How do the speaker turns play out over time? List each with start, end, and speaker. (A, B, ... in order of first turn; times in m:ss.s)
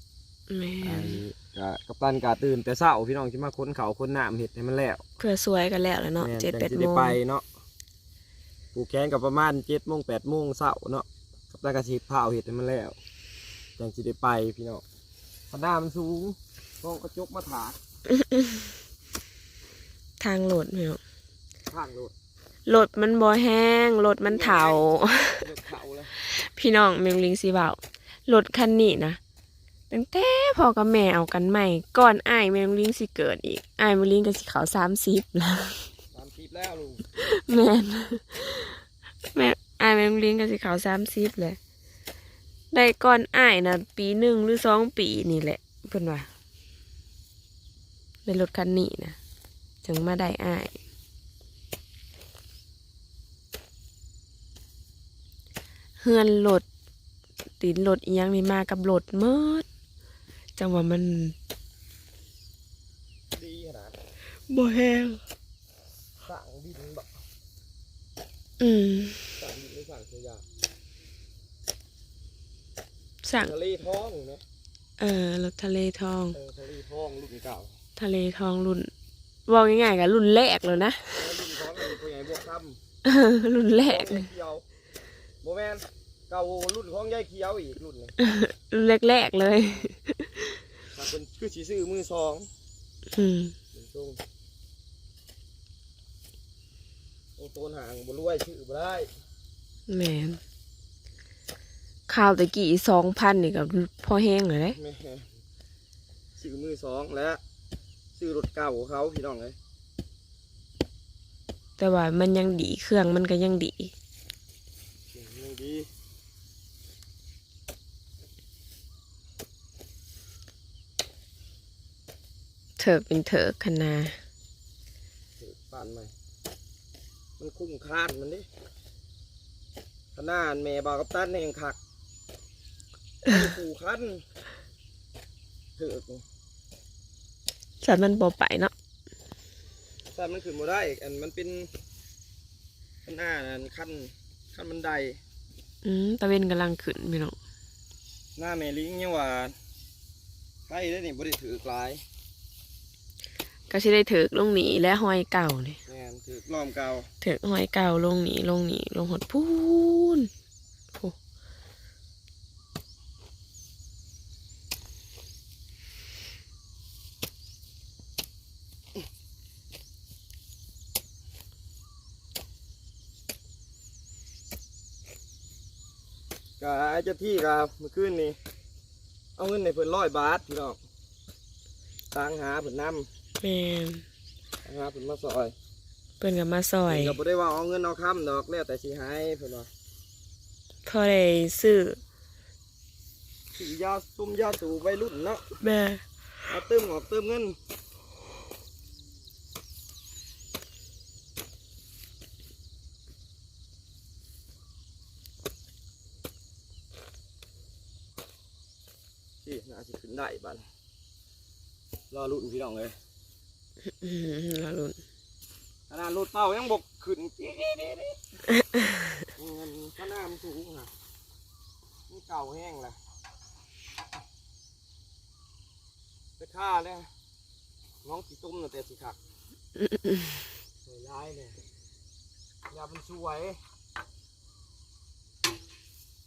0:00.5-0:01.2 A
0:00.8-0:05.0 B
0:05.2-0:07.2 A
0:06.2-0:07.4 B
0:08.7-0:13.0 B
0:13.8-0:14.8 B
0:15.5-0:17.8 B
0:18.2-0:18.5 A
0:20.2-0:21.0 A
0:21.7-0:22.1 B
0:22.7-0:25.4 A
0:24.2-0:26.1 B
0:26.3-0:29.2 A
0:29.9-0:35.8 A
0:36.1-0:37.0 B
0:37.2-0:38.8 A
0:39.3-0:41.6 A
0:42.7-0:46.3 A
0:48.2-0:49.2 A
0:49.8-0:50.8 A
0:56.0-0:56.7 A
0:57.6-0:59.6 A
1:00.6-1:01.4 A
1:03.3-1:04.0 B
1:04.5-1:05.2 A
1:06.2-1:07.1 B
1:08.6-1:09.2 A
1:09.4-1:10.4 B
1:13.2-1:13.5 A
1:13.4-1:14.4 B
1:15.0-1:16.4 A
1:16.3-1:17.8 B
1:18.0-1:18.9 A
1:19.5-1:21.3 A
1:21.2-1:22.8 B
1:23.0-1:24.3 A
1:23.9-1:24.6 B
1:25.4-1:28.2 B
1:28.2-1:30.3 A
1:30.9-1:32.5 B
1:33.2-1:33.5 A
1:33.7-1:34.2 B
1:37.4-1:39.1 B
1:39.9-1:40.4 A
1:42.1-1:44.8 A
1:44.8-1:45.3 B
1:46.4-1:47.4 B
1:48.2-1:49.6 B
1:51.8-1:53.9 A
1:55.1-1:55.9 B
2:02.8-2:04.2 A
2:05.4-2:06.1 B
2:07.4-2:08.5 B
2:10.2-2:11.8 B
2:13.2-2:14.2 B
2:15.8-2:16.2 B
2:17.8-2:18.7 A
2:20.1-2:21.7 B
2:23.0-2:25.2 B
2:25.8-2:27.4 A
2:28.4-2:29.6 B
2:30.7-2:32.0 B
2:33.7-2:35.8 A
2:35.9-2:37.1 B
2:37.2-2:40.3 A
2:56.6-2:58.4 B
2:59.4-3:00.8 B
3:02.1-3:03.1 B
3:03.4-3:04.0 A
3:04.6-3:05.6 B
3:06.2-3:07.2 A
3:06.9-3:09.7 B
3:10.9-3:12.0 A
3:13.6-3:15.4 B
3:15.6-3:16.0 A
3:16.5-3:17.6 B
3:29.4-3:30.6 B
3:32.1-3:33.0 B
3:33.8-3:35.0 A
3:35.9-3:38.2 B
3:39.4-3:40.9 B
3:42.1-3:43.0 B
3:46.4-3:47.1 B
3:48.0-3:49.2 B
3:50.8-3:51.6 B
3:52.7-3:53.6 B